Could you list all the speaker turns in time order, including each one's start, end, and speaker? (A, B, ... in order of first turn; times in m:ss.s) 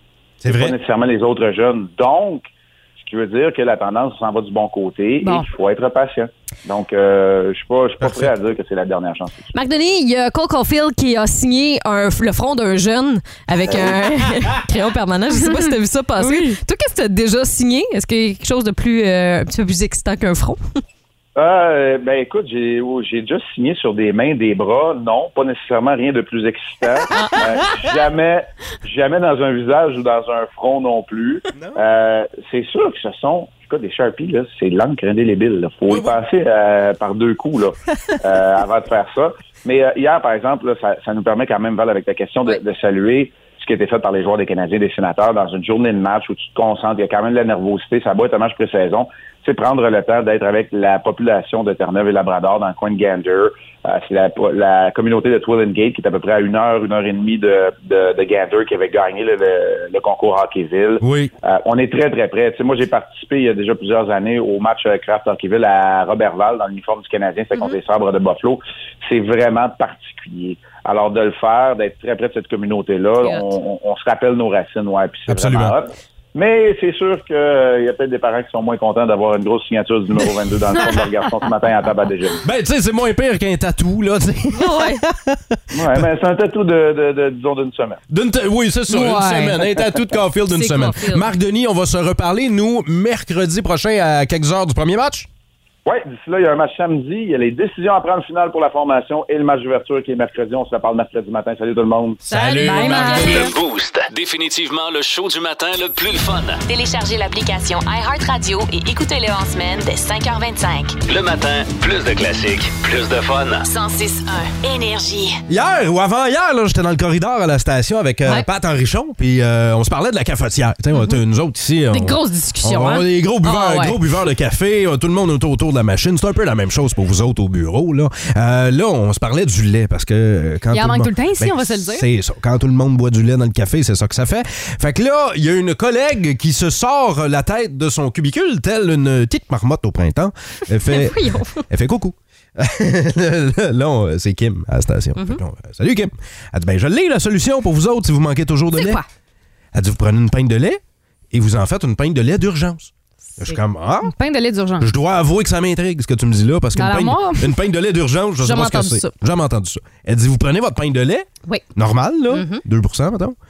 0:00.4-0:00.8 A
0:00.5-0:09.4 B
0:08.0-0:08.3 A
0:09.5-0:20.6 C
0:15.4-0:16.6 D
0:21.4-1:22.4 B
0:27.1-0:27.4 C
0:31.5-0:31.8 A
0:35.9-0:36.2 A
1:01.0-1:01.3 A
1:15.3-1:15.8 A
1:22.4-1:26.1 A
1:24.5-1:25.0 C
1:25.7-1:28.0 B
1:28.1-1:35.3 A
1:28.9-1:29.6 D
1:30.5-1:31.2 C
1:35.8-1:42.2 B
1:42.2-1:43.4 A
1:42.4-1:43.3 C
1:42.4-1:43.5 D
1:43.0-1:46.6 E
1:46.7-1:51.0 F
1:51.0-1:53.7 E
1:53.6-1:55.4 F
1:55.5-2:29.0 A
2:01.9-2:04.0 C
2:10.7-2:12.0 D
2:20.9-2:21.6 C
2:29.7-2:34.1 A
2:34.0-2:34.9 D
2:34.8-2:43.4 A
2:36.8-2:37.5 D
2:38.4-2:39.1 C
2:42.3-2:42.6 C